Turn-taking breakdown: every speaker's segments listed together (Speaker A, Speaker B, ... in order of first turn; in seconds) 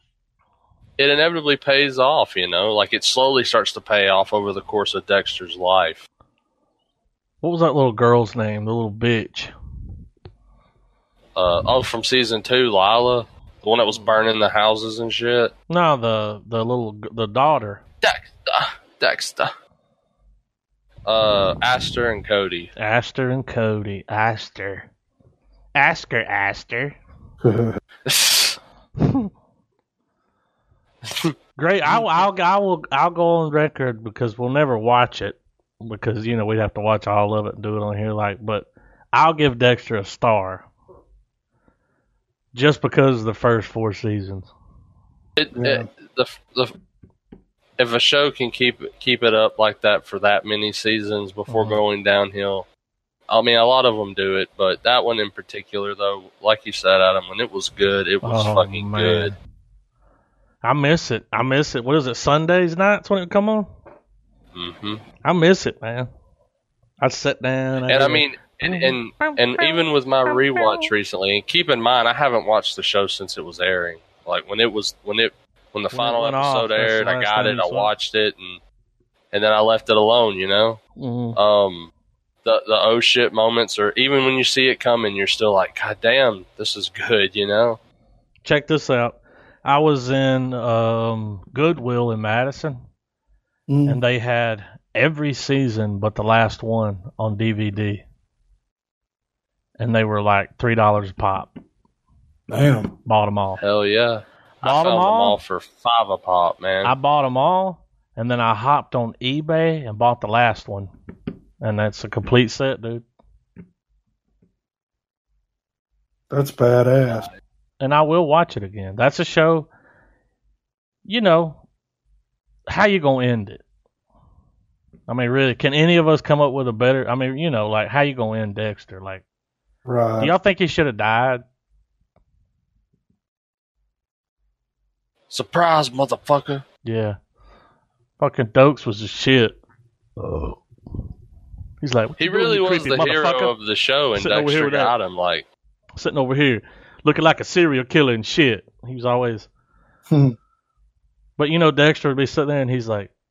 Speaker A: 1.0-6.0, 11.3-15.5, 18.0-19.5, 21.1-22.7, 28.1-28.6, 31.0-31.3, 45.4-46.7, 47.8-52.7, 53.3-59.3, 64.5-65.0, 67.9-78.6, 79.3-80.8, 81.3-81.9, 82.4-87.8, 103.6-106.9, 117.1-117.4, 135.3-136.6, 142.2-145.4
Speaker B: 7.4-9.5, 15.7-17.8, 22.8-24.9, 25.7-27.0, 29.0-29.3, 31.6-40.7, 42.5-44.5, 51.5-51.8, 58.2-59.4, 60.6-63.7, 65.2-66.1, 67.0-70.9, 75.9-77.9, 81.0-81.4, 88.4-92.8, 93.8-98.0, 99.8-101.5, 103.0-103.6, 104.6-105.4, 106.8-110.9, 111.6-113.0, 117.8-119.7, 121.0-121.6, 122.7-123.6, 125.1-129.2, 130.2-131.4, 136.8-137.2, 138.2-139.6, 140.2-140.6, 141.8-143.5, 144.2-144.9, 146.0-149.5, 151.4-153.1
Speaker C: 27.4-27.7, 45.5-45.9, 93.7-94.0, 102.5-102.9, 116.3-117.3, 129.8-130.3, 150.1-150.3